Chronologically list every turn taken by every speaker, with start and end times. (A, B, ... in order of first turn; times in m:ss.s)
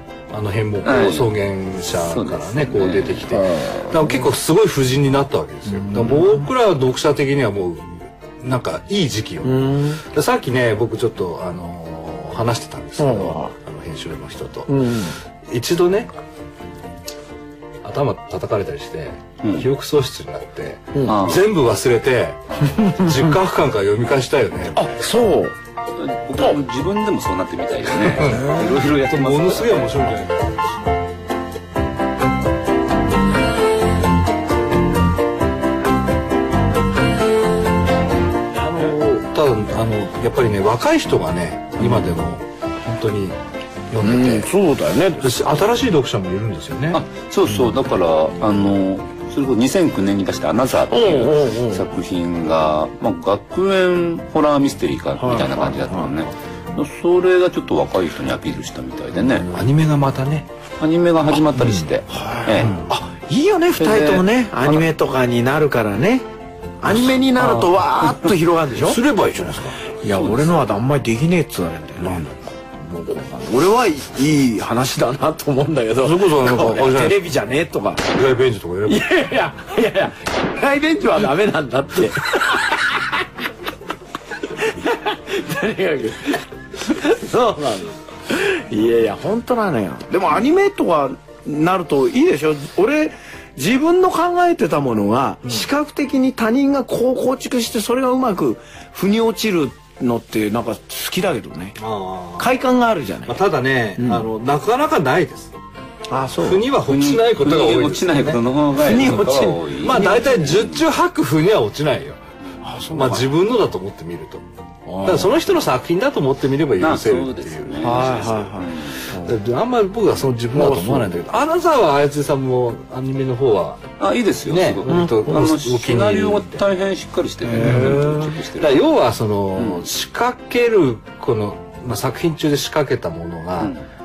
0:00.3-0:16.1 A
0:00.8-0:03.4 B
0:03.4-0:03.9 C
0:05.8-0:06.4 C
0:09.4-0:10.0 C
0:13.0-0:13.5 C
0:14.7-0:15.2 C
0:17.8-0:25.0 A
0:19.4-0:19.7 B
0:21.0-0:21.5 B
0:22.8-0:23.1 C
0:24.7-0:25.5 C
0:26.0-0:30.2 B
0:28.2-0:30.6 A
0:28.2-0:28.6 C
0:38.5-0:43.4 A
0:43.9-0:44.5 A
0:44.0-0:45.4 C
0:45.2-0:47.0 A
0:46.9-0:59.5 B
0:50.9-0:51.8 C
0:55.2-0:56.1 C
0:59.5-1:00.5 A
1:00.8-1:02.7 B
1:01.3-1:06.2 C
1:03.8-1:04.8 B
1:06.8-1:09.0 C
1:08.8-1:09.8 A
1:10.0-1:18.0 C
1:10.1-1:10.5 B
1:16.0-1:17.2 A
1:18.1-1:19.0 A
1:18.8-1:23.2 C
1:24.5-1:41.8 C
1:41.8-1:42.5 A
1:42.4-1:43.4 C
1:43.3-1:45.6 A
1:44.0-1:44.2 C
1:46.1-1:46.7 C
1:46.4-1:48.4 A
1:46.8-1:50.8 B
1:48.8-1:50.3 C
1:49.8-1:52.2 A
1:52.6-1:53.3 C
1:52.9-1:54.4 A
1:54.8-1:55.4 C
1:55.0-1:58.0 A
1:56.8-1:59.1 B
1:57.8-1:59.3 C
1:59.2-2:03.8 A
2:00.5-2:01.1 C
2:04.0-2:08.8 B
2:04.4-2:06.6 A
2:04.9-2:05.2 C
2:07.4-2:13.7 A
2:07.6-2:08.1 C
2:09.6-2:09.9 B
2:13.6-2:13.8 B